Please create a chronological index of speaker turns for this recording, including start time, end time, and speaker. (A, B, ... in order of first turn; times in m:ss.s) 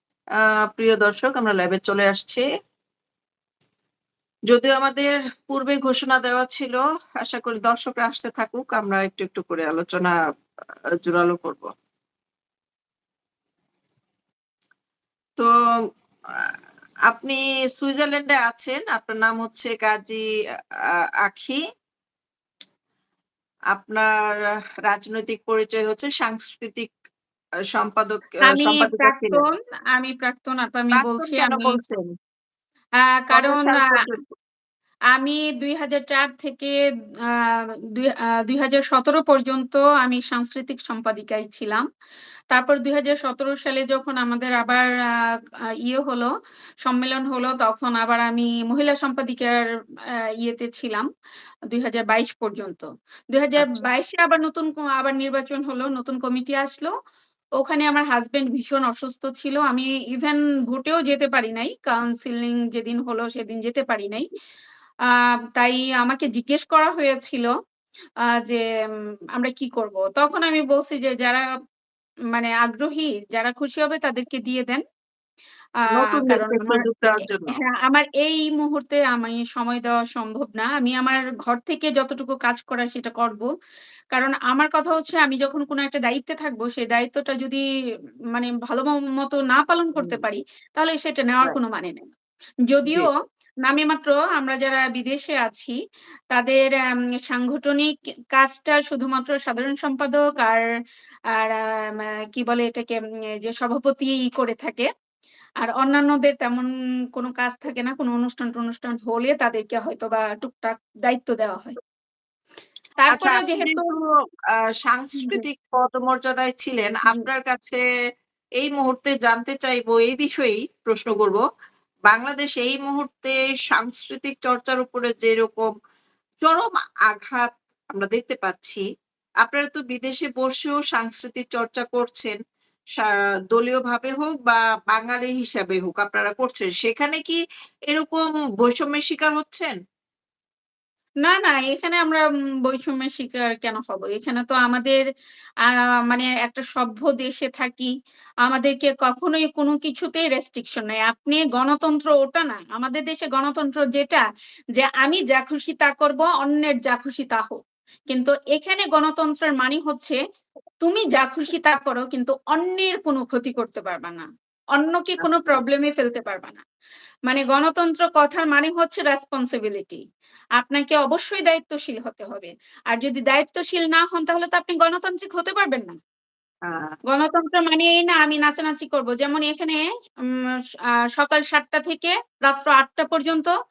0:00.4-0:02.5 A
0:04.5-0:10.2 A
0:11.0-0:11.7 A
0:17.1-0:20.2 A
0:21.2-0:21.6 A
0:23.7-0:26.9 A
0:27.8-0:29.4 A
0:28.4-0:31.8 B
0:31.0-0:32.1 A
0:33.0-0:33.9 B
0:33.3-0:34.2 A
0:35.1-0:36.8 B
0:37.3-0:41.9 B
0:42.5-0:46.3 B
0:46.8-0:49.6 B
0:50.4-0:51.1 B
0:51.7-0:56.9 B
0:53.6-0:53.8 A
0:57.6-1:04.3 B
1:05.1-1:07.5 B
1:09.4-1:11.4 B
1:12.3-1:14.8 B
1:15.9-1:17.6 A
1:16.0-1:23.5 B
1:24.1-1:27.6 B
1:28.3-1:32.1 B
1:30.0-1:30.2 A
1:32.7-1:33.1 B
1:33.6-1:35.8 B
1:36.3-1:40.6 B
1:41.3-1:44.9 B
1:45.6-1:51.8 B
1:53.0-1:53.8 B
1:53.1-1:54.1 A
1:54.8-1:57.8 A
1:58.6-2:01.4 A
2:02.1-2:05.7 A
2:06.4-2:08.8 A
2:09.4-2:12.4 A
2:13.0-2:19.8 A
2:21.2-2:25.0 B
2:25.7-2:27.9 B
2:28.4-2:34.2 B
2:34.8-2:37.6 B
2:38.1-2:40.2 B
2:40.8-2:46.6 B
2:45.2-2:45.6 A
2:47.3-2:50.0 B
2:50.6-2:56.0 B
2:56.7-2:57.0 A
2:57.1-3:00.6 B
3:01.2-3:03.5 B